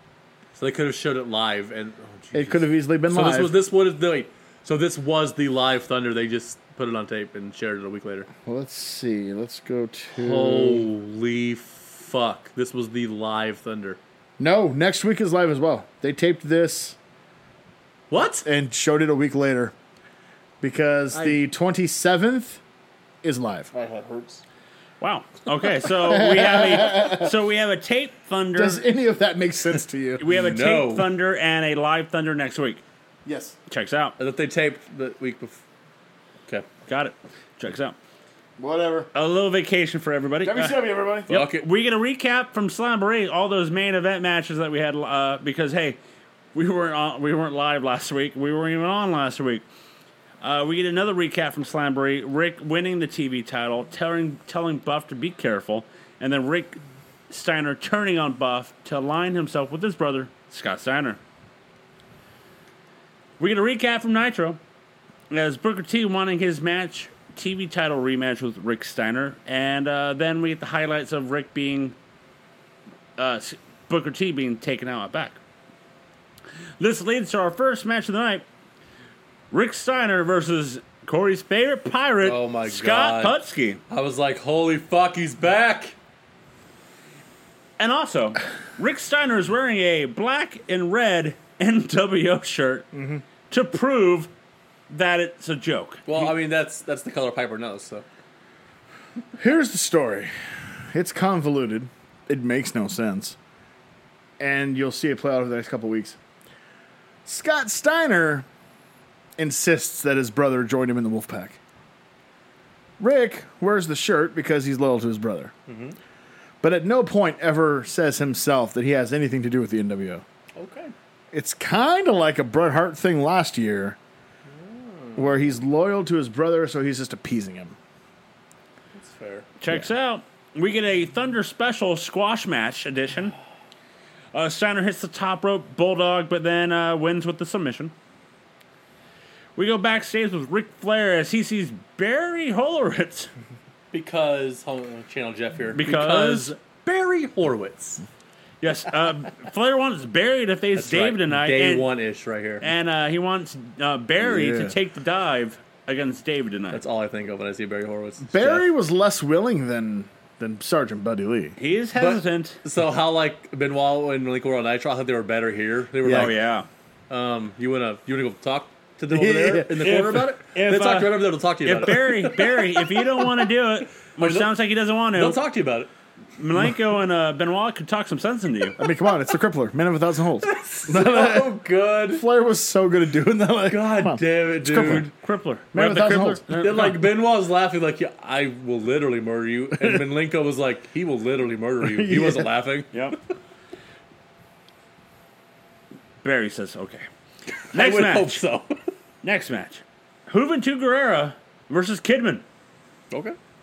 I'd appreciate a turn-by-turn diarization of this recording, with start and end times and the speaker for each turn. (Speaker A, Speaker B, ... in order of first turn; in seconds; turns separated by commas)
Speaker A: 0.5-8.3, Speaker B: 2.3-3.6, Speaker B: 8.4-10.9, Speaker A: 10.1-14.0, Speaker B: 14.4-17.0, Speaker A: 18.1-18.5, Speaker B: 18.4-19.7, Speaker B: 20.6-22.6, Speaker A: 21.1-21.4, Speaker B: 23.2-23.7, Speaker A: 23.7-24.4, Speaker C: 25.0-28.9, Speaker B: 26.1-27.3, Speaker B: 28.5-30.2, Speaker C: 30.2-32.8, Speaker A: 30.3-31.1, Speaker B: 33.2-33.6, Speaker C: 33.7-34.1, Speaker A: 34.2-35.6, Speaker C: 36.9-38.0, Speaker B: 38.6-39.1, Speaker C: 39.1-46.0, Speaker B: 40.4-41.4, Speaker A: 41.3-41.6, Speaker C: 46.5-49.6, Speaker C: 50.4-61.2, Speaker C: 63.4-64.6, Speaker C: 65.3-72.0, Speaker C: 73.2-75.4, Speaker C: 76.8-78.4, Speaker C: 79.5-83.8, Speaker A: 82.2-83.4, Speaker A: 83.9-85.9, Speaker C: 87.8-92.9, Speaker B: 92.9-93.2, Speaker C: 93.5-94.3, Speaker C: 94.9-96.3, Speaker A: 96.1-98.0, Speaker B: 99.4-100.3, Speaker B: 100.9-103.4, Speaker B: 104.4-106.2, Speaker B: 107.2-108.5, Speaker B: 109.4-111.6, Speaker B: 113.0-115.5, Speaker A: 115.7-116.0, Speaker B: 116.6-120.2, Speaker A: 120.6-120.9, Speaker B: 121.3-124.0, Speaker A: 124.6-125.4, Speaker B: 125.2-127.8, Speaker A: 128.9-129.5, Speaker C: 129.6-133.3, Speaker C: 134.3-137.9, Speaker C: 139.6-143.3, Speaker A: 143.9-148.0, Speaker C: 145.7-146.5, Speaker C: 148.6-151.9, Speaker A: 150.7-152.7, Speaker C: 152.6-156.8, Speaker B: 154.2-154.8, Speaker A: 156.7-158.7, Speaker B: 158.2-161.6, Speaker C: 161.6-162.6, Speaker A: 161.9-166.4, Speaker B: 166.0-166.3, Speaker C: 166.1-166.7, Speaker A: 167.1-173.4, Speaker B: 169.1-170.1, Speaker C: 169.7-175.4, Speaker A: 174.2-174.6, Speaker A: 175.1-175.9, Speaker C: 176.4-178.8, Speaker B: 178.8-185.1, Speaker A: 180.4-182.2, Speaker A: 183.7-185.1, Speaker C: 184.8-187.1, Speaker B: 185.7-186.4, Speaker A: 186.5-192.9, Speaker B: 191.8-192.5, Speaker C: 192.9-193.2, Speaker C: 196.2-197.0, Speaker C: 197.7-198.4, Speaker A: 197.7-198.7, Speaker C: 199.2-202.4, Speaker A: 203.1-203.4